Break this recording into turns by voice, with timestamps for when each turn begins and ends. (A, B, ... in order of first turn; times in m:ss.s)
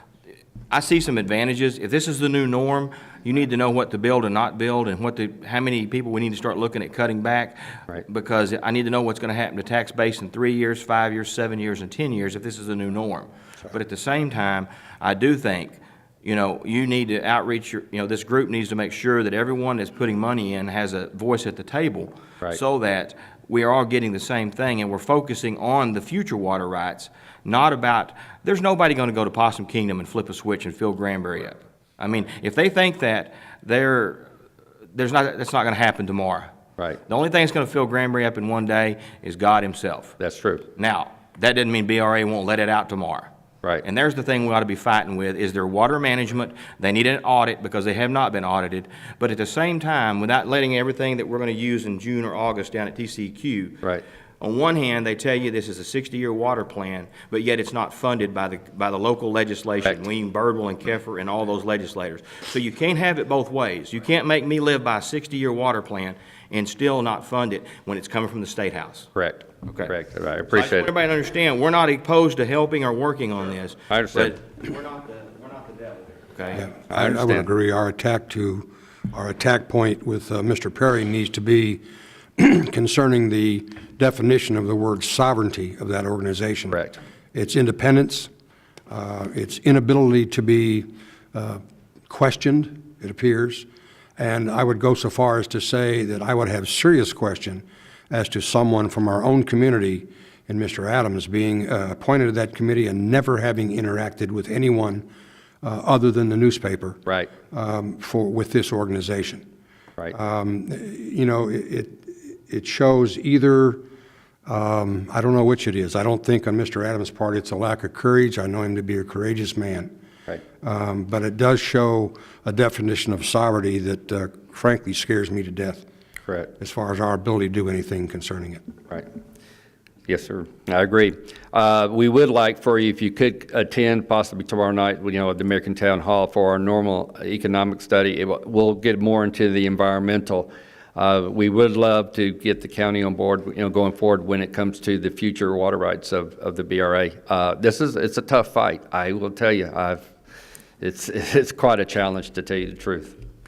0:00.7-0:34.3 A
0:34.9-0:36.5 A
0:37.1-0:40.2 A
0:40.2-0:40.7 B
0:40.8-0:43.3 A
0:43.8-0:53.8 A
0:54.4-1:09.1 A
1:09.1-1:10.9 B
1:09.6-1:09.9 A
1:10.4-1:16.7 A
1:13.9-1:14.3 B
1:16.6-1:21.8 C
1:16.9-1:17.5 B
1:22.4-1:26.8 C
1:26.7-1:27.0 B
1:27.3-1:28.3 C
1:28.9-1:33.7 C
1:34.2-1:45.0 C
1:45.6-1:49.4 C
1:50.1-1:53.8 C
1:54.4-1:59.9 C
2:00.6-2:05.8 C
2:06.6-2:08.6 C
2:10.1-2:30.1 B
2:30.8-2:33.2 B